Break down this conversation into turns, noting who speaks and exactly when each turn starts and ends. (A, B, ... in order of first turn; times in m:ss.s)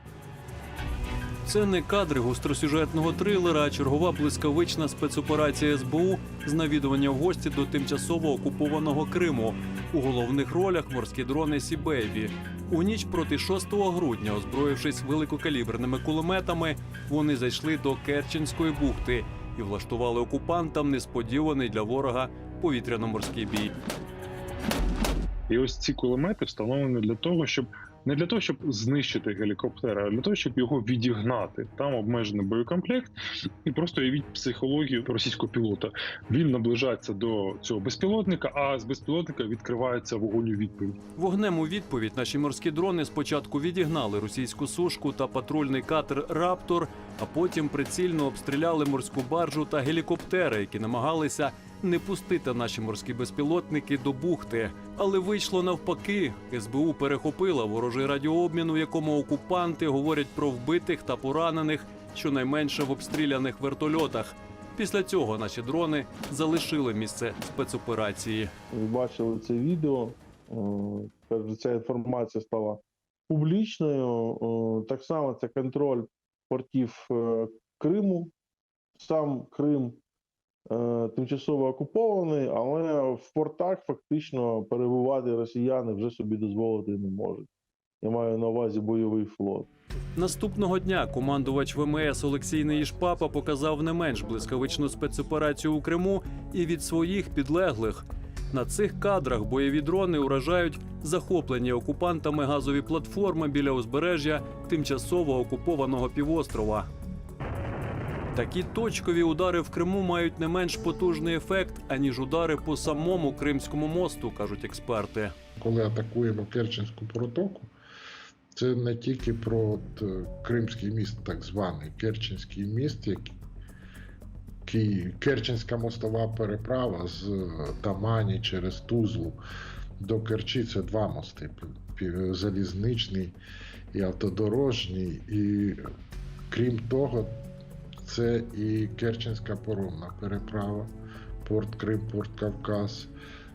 0:01.5-0:23.7 A
0:25.5-0:33.1 B
0:33.6-0:41.0 B
0:41.2-1:08.5 A
1:08.7-1:18.3 C
1:19.0-1:20.0 C
1:20.7-1:27.5 C
1:28.0-1:29.7 C
1:30.2-1:46.9 A
1:48.3-1:55.3 A
1:55.6-1:57.7 D
1:58.6-2:03.4 D
2:04.7-2:09.4 D
2:10.0-2:13.4 D
2:13.9-2:15.8 D
2:16.5-2:17.4 D
2:18.0-2:20.9 D
2:21.4-2:23.1 D